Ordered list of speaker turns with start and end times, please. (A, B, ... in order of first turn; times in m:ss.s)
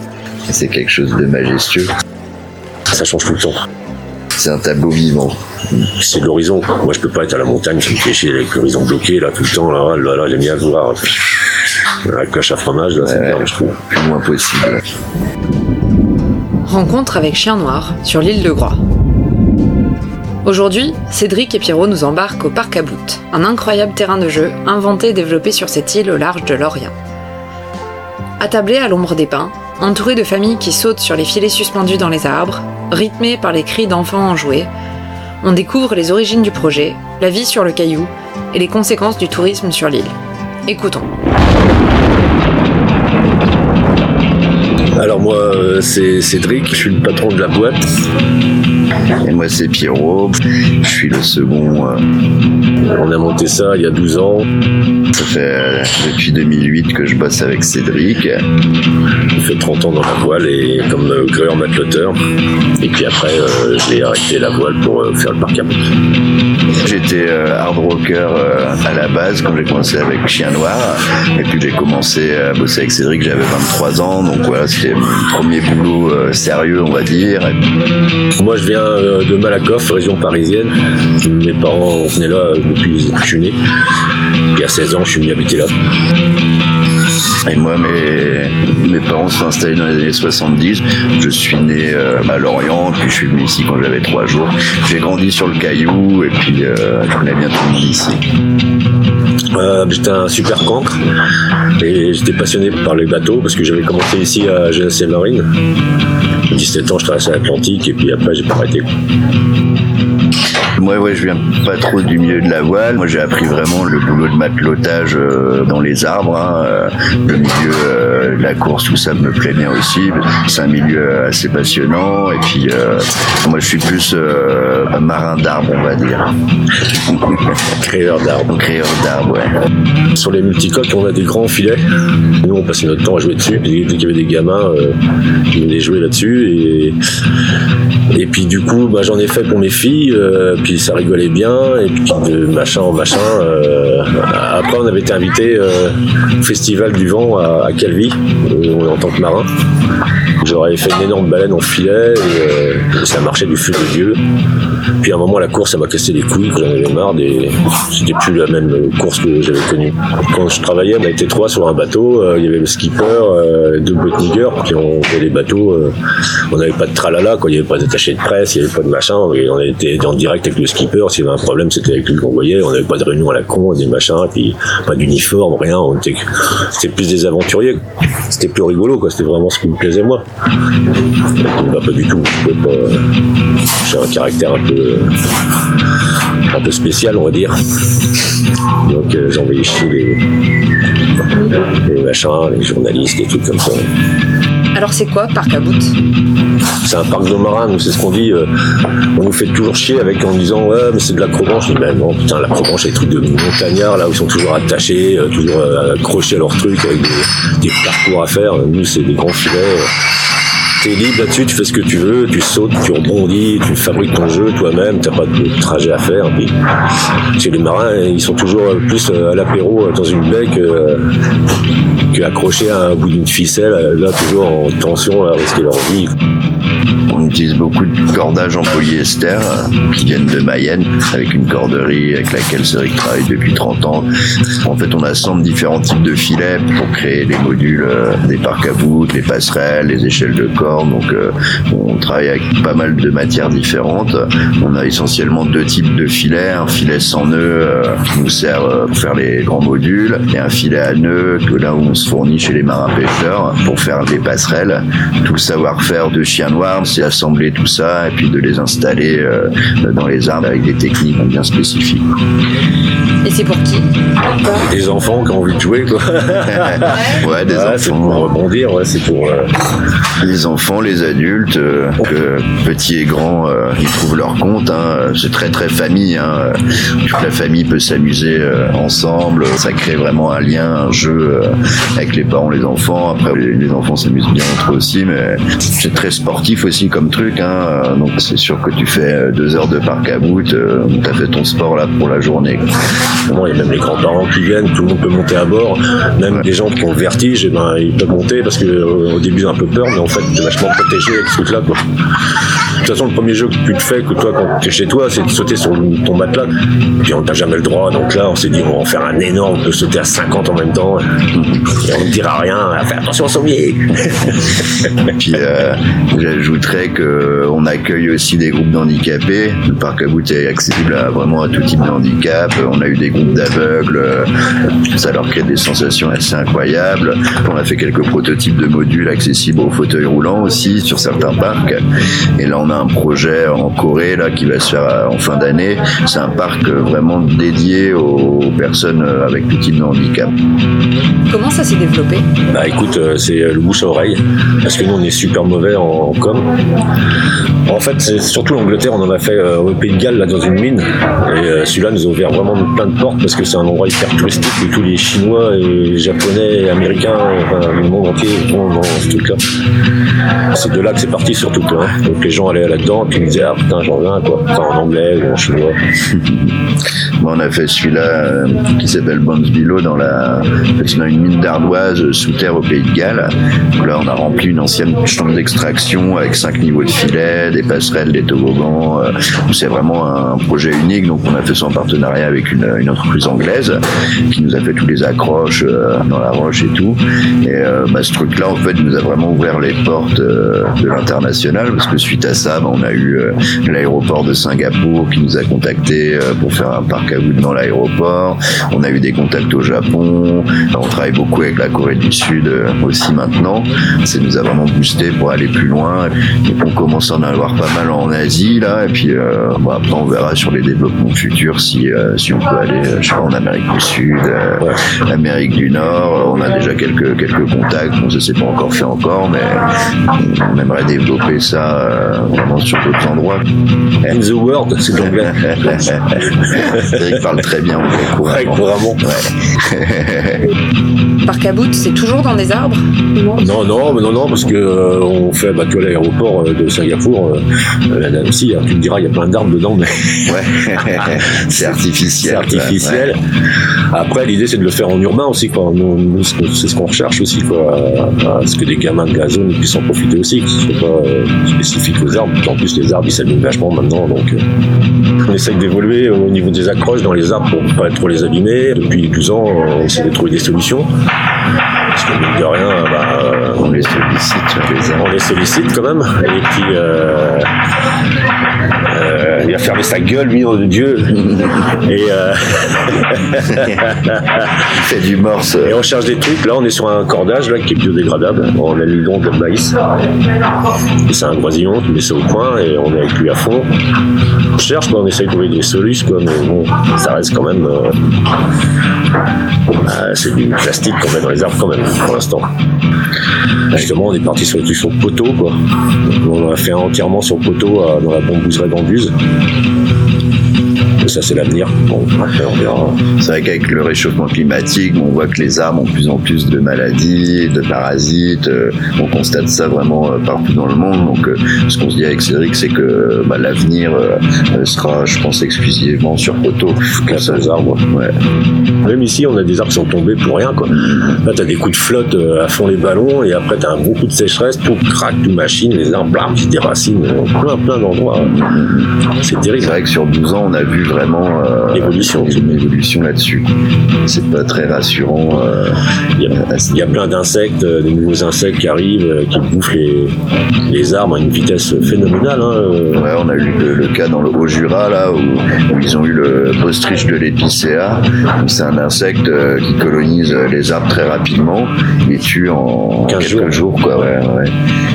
0:00.5-0:01.9 A
0:02.9-0:03.6 B
0:04.4-0:05.4 A
0:05.9-0:13.8 B
0:13.0-0:14.8 A
0:16.7-0:18.8 C
0:20.4-0:26.9 C
0:28.4-0:34.7 C
0:35.4-0:40.1 C
0:40.7-0:41.1 C
0:44.9-0:47.8 B
0:49.2-0:52.0 A
0:52.8-0:54.5 B
0:55.1-0:58.4 A
0:59.3-1:02.2 B
1:02.8-1:05.8 B
1:06.7-1:17.5 A
1:18.4-1:23.6 B
1:24.5-1:25.7 B
1:27.4-1:38.2 A
1:39.5-1:41.0 B
1:41.8-1:45.5 B
1:46.5-1:48.8 B
1:50.8-2:06.3 A
2:06.9-2:07.5 A
2:07.7-2:08.5 B
2:08.5-2:09.5 A
2:10.1-2:11.8 B
2:12.4-2:15.0 B
2:15.5-2:17.0 B
2:18.1-2:29.5 B
2:30.4-2:34.2 B
2:35.0-2:45.9 B
2:46.5-3:00.2 B
3:01.2-3:03.0 B
3:03.7-3:05.2 B
3:06.5-3:07.5 B
3:08.8-3:10.2 B
3:11.6-3:13.9 B
3:14.7-3:16.0 C
3:16.8-3:18.5 B
3:19.1-3:29.9 B
3:30.8-3:36.6 B
3:37.3-3:41.1 B
3:42.1-3:46.1 B
3:47.1-3:54.1 A
3:54.6-4:22.0 A
4:23.2-4:23.9 C
4:24.6-4:29.5 B
4:26.5-4:28.3 A
4:30.2-4:52.7 A
4:53.3-5:01.8 B
5:02.5-5:06.5 B
5:07.0-5:11.0 B
5:11.3-5:11.7 A
5:11.6-5:14.8 B
5:15.1-5:24.3 A
5:24.9-5:31.8 A
5:32.4-5:40.3 A
5:41.3-5:42.3 C
5:42.5-5:46.5 B
5:47.6-5:59.4 B
6:00.5-6:05.8 B
6:06.1-6:06.5 A
6:07.2-6:23.8 A
6:24.3-7:03.4 A
7:04.1-7:07.4 B
7:05.5-7:10.5 A
7:08.2-7:09.1 B
7:11.2-7:13.2 C
7:13.4-7:20.3 B
7:20.2-7:23.1 A
7:20.8-7:23.2 B
7:23.9-7:34.4 B
7:35.2-7:40.9 B
7:41.9-7:43.8 B
7:43.6-7:45.1 A
7:44.7-7:47.5 B
7:48.9-7:54.8 B
7:54.7-7:55.8 A
7:55.6-7:59.8 B
8:01.1-8:03.7 B
8:04.6-8:08.0 B
8:09.8-8:12.4 B
8:13.8-8:19.1 B
8:21.0-8:23.0 B
8:23.2-8:38.1 A
8:37.0-8:37.8 B
8:38.8-8:48.3 B
8:48.2-8:49.0 A
8:49.2-8:49.8 B
8:49.6-8:53.5 A
8:51.7-8:52.6 B
8:54.0-8:57.0 A
8:56.2-9:00.1 B
9:00.7-9:03.1 B
9:02.9-9:14.5 A
9:13.1-9:13.6 B